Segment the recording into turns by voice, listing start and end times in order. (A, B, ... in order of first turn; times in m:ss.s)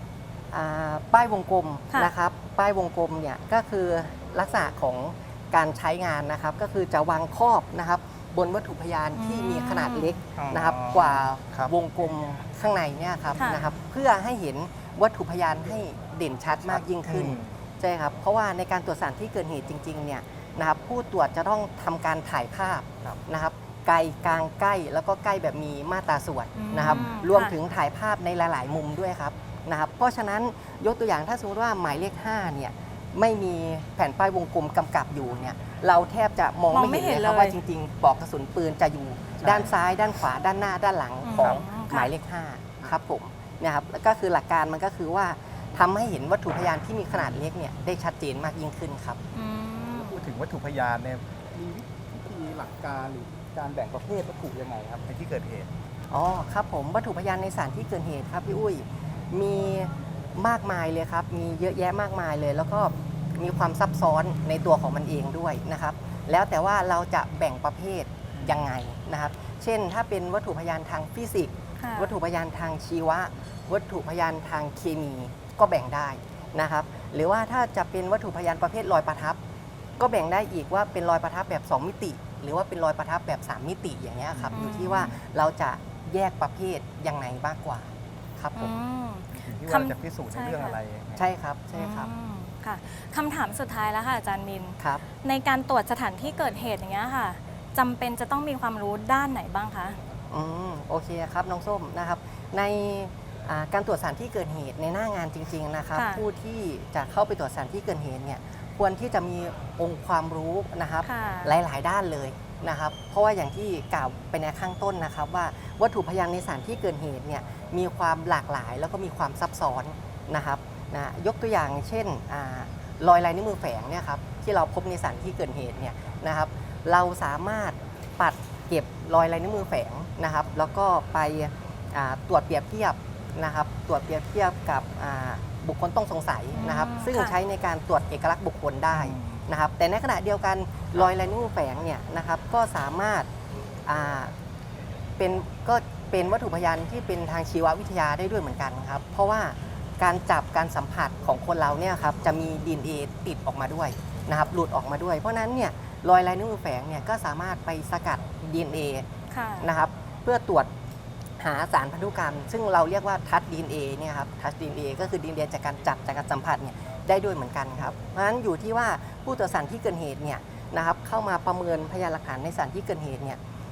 0:00.5-0:49.2 A
0:09.2-0:10.2 B
0:10.4-0:11.7 C
0:13.4-0:13.7 B
0:16.5-0:17.6 C
0:26.6-0:27.6 B
0:26.8-0:27.1 C
0:36.7-0:37.6 B
0:39.4-0:39.7 C
0:41.2-0:42.1 B
0:41.3-0:41.6 C
0:49.3-0:50.2 B
0:49.9-0:55.7 C
0:56.1-1:19.4 A
1:08.4-1:08.7 C
1:11.8-1:12.2 B
1:20.0-1:28.7 A
1:24.3-1:25.2 C
1:24.4-1:25.1 B
1:28.6-1:30.8 B
1:29.3-1:31.3 C
1:31.2-1:32.1 A
1:31.7-1:40.0 B
1:40.3-2:23.3 A
1:45.9-1:46.2 B
1:51.0-1:51.5 B
2:16.6-2:17.4 B
2:18.9-2:19.5 C
2:23.9-2:24.3 A
2:25.2-2:39.1 A
2:39.3-2:39.7 B
2:39.6-2:40.7 A
2:41.4-2:53.4 A